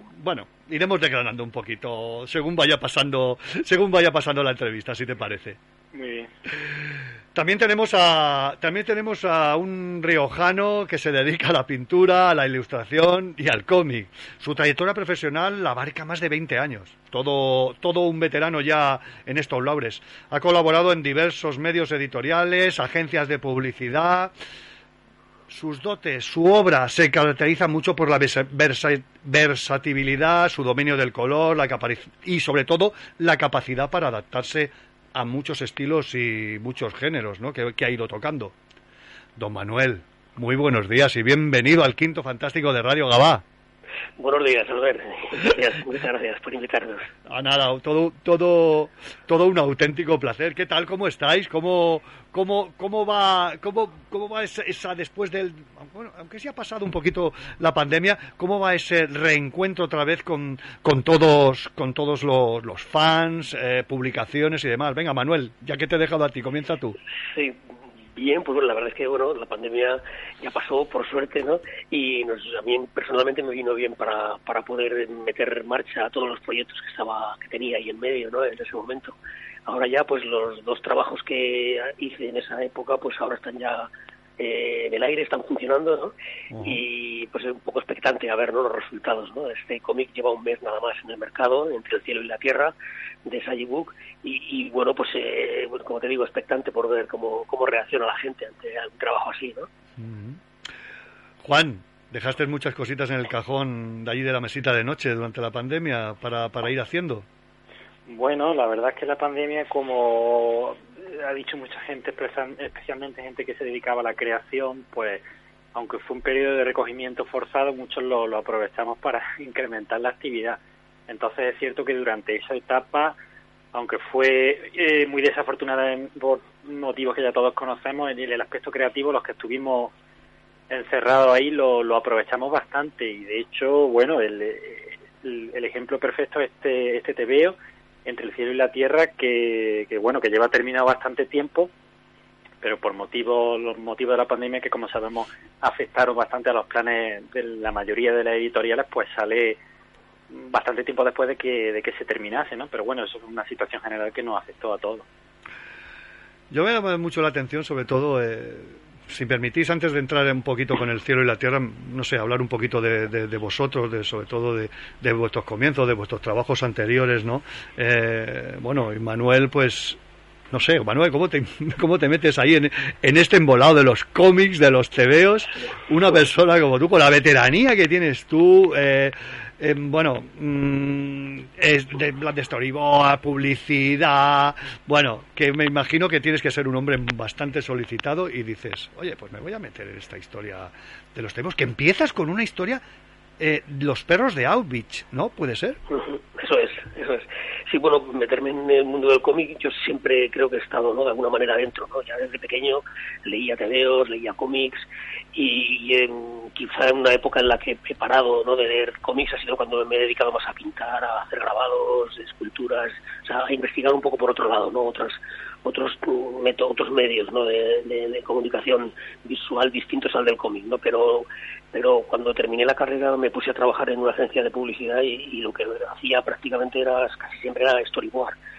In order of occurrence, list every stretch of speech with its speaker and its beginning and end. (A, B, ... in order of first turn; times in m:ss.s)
0:00.2-0:05.6 A
0:05.9-0:06.3 B
0:07.3-0:24.3 A
0:25.5-0:38.5 A
0:39.4-0:43.4 A
0:44.2-0:47.1 C
0:47.2-1:07.0 A
1:07.3-1:07.6 C
1:08.1-1:32.7 C
1:26.5-1:26.8 A
1:33.2-1:39.7 C
1:40.0-1:40.4 A
1:41.4-1:47.2 A
1:48.1-1:55.2 B
1:55.7-2:03.2 B
2:03.7-2:09.9 B
2:10.7-2:21.7 B
2:22.6-2:29.6 B
2:30.3-2:35.1 B
2:36.5-2:50.0 A
2:50.5-3:12.8 A
3:13.4-3:15.8 A
3:15.9-3:48.4 C